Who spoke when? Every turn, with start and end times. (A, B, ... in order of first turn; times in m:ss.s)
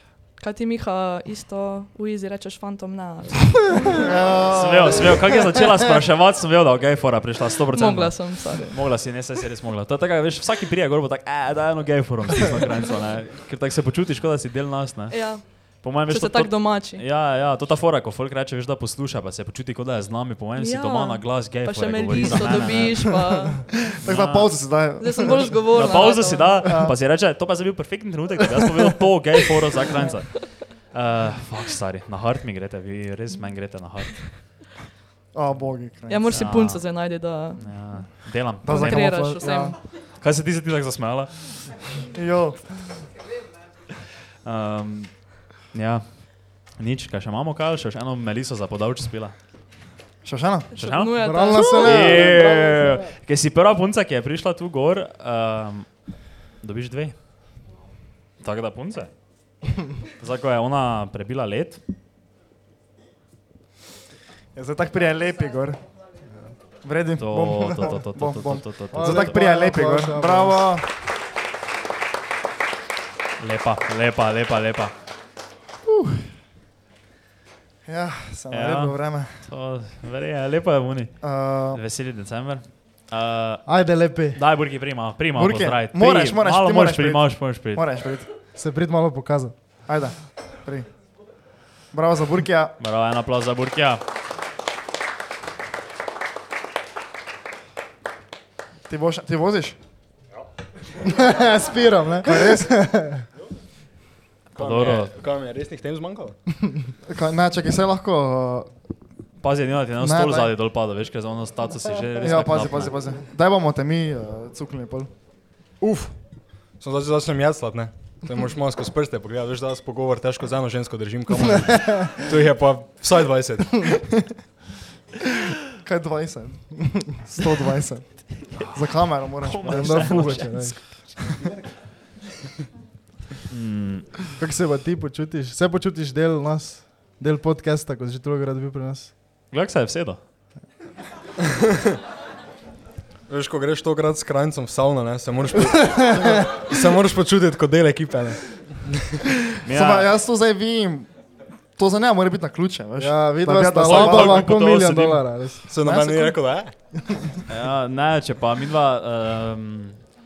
0:00.4-0:04.0 A
0:04.0-0:05.3 B
0:04.5-0:23.3 C
0:07.7-0:08.7 A
0:15.1-0:17.0 A
0:20.6-0:23.7 A
0:24.0-0:25.7 B
0:24.0-0:24.7 C
0:25.0-0:26.8 A
0:25.7-0:34.4 C
0:26.6-0:27.0 B
0:35.3-0:36.5 B
0:36.1-0:37.7 A
0:36.3-0:36.9 C
0:37.6-0:39.3 C
0:38.6-0:39.8 B
0:38.7-0:39.8 A
0:40.1-0:41.7 C
0:42.1-0:42.6 B
0:44.4-0:49.4 C
0:50.2-0:50.7 B
0:50.8-0:52.3 A
0:50.8-0:57.2 C
0:51.2-0:53.0 D
0:58.4-0:59.1 C
1:00.2-1:01.8 C
1:04.6-1:05.8 B
1:06.8-1:10.9 B
1:07.2-1:09.3 C
1:08.9-1:10.6 D
1:13.4-1:14.9 C
1:15.8-1:16.3 B
1:17.9-1:19.3 B
1:18.5-1:27.9 C
1:21.2-1:21.8 B
1:23.7-1:24.4 D
1:25.4-1:28.3 B
1:28.6-1:29.6 D
1:29.9-1:30.9 B
1:31.9-1:32.8 B
1:32.8-1:34.0 C
1:38.9-1:39.8 B
1:41.0-1:43.2 D
1:42.2-1:42.7 B
1:44.6-1:45.1 C
1:44.6-1:46.4 E
1:47.0-1:48.7 B
1:49.4-1:53.0 C
1:50.0-1:50.5 B
1:52.2-1:55.1 B
1:55.8-1:56.2 E
1:56.7-2:03.9 E
2:05.8-2:10.4 B
2:08.5-2:11.3 C
2:09.7-2:10.8 D
2:13.5-2:14.2 C
2:14.4-2:19.1 D
2:19.5-2:20.2 C
2:23.3-2:29.1 E
2:26.0-2:26.4 D
2:29.6-2:30.1 C
2:29.7-2:31.1 B
2:31.8-2:34.5 B
2:33.0-2:35.7 D
2:33.8-2:35.3 C
2:35.7-2:36.7 E
2:35.8-2:36.4 B
2:37.5-2:40.0 C